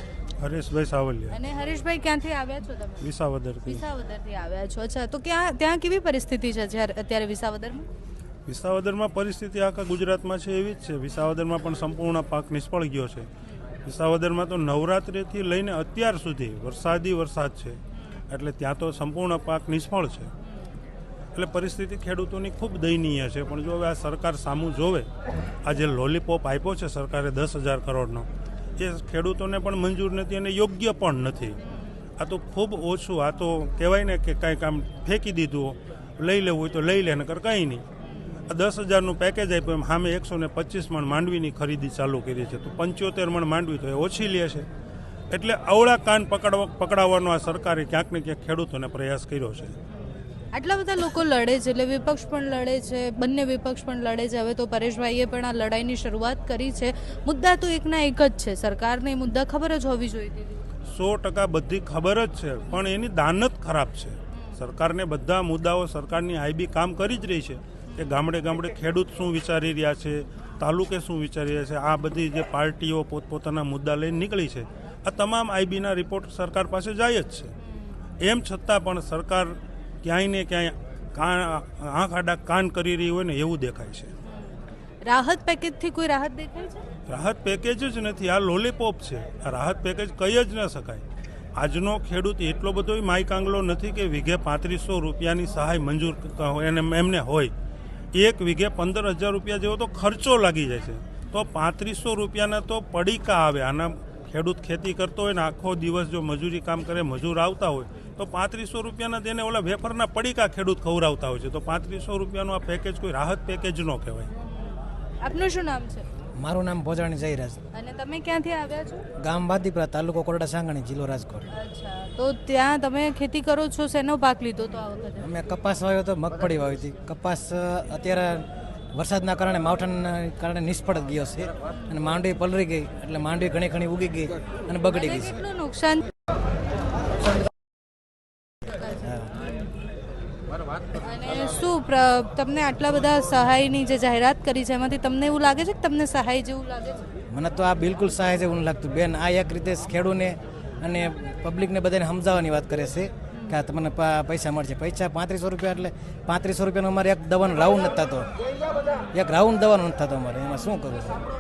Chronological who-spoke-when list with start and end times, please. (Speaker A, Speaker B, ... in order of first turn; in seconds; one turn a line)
Speaker A: 0.4-1.4
Speaker B: 1.3-3.1
Speaker A: 3.0-3.8
Speaker B: 3.6-7.9
Speaker A: 8.5-13.3
Speaker A: 13.8-17.8
Speaker A: 18.3-20.3
Speaker A: 21.3-25.1
Speaker A: 25.6-31.6
Speaker B: 31.6-31.9
Speaker A: 32.2-37.8
Speaker A: 38.5-44.7
Speaker A: 45.3-49.8
Speaker B: 50.5-60.6
Speaker A: 60.9-77.5
Speaker B: 67.9-68.2
Speaker A: 78.2-84.1
Speaker B: 84.2-86.9
Speaker A: 87.1-91.0
Speaker A: 91.5-97.5
Speaker A: 98.1-114.3
Speaker B: 114.4-116.0
Speaker C: 116.4-117.6
Speaker B: 117.7-119.1
Speaker C: 119.2-121.5
Speaker B: 121.5-125.3
Speaker C: 125.2-135.4
Speaker B: 134.9-136.1
Speaker C: 139.0-139.3
Speaker B: 139.4-139.7
Speaker B: 140.9-147.1
Speaker C: 147.3-158.3
Speaker B: 153.3-153.6
Speaker C: 159.1-161.2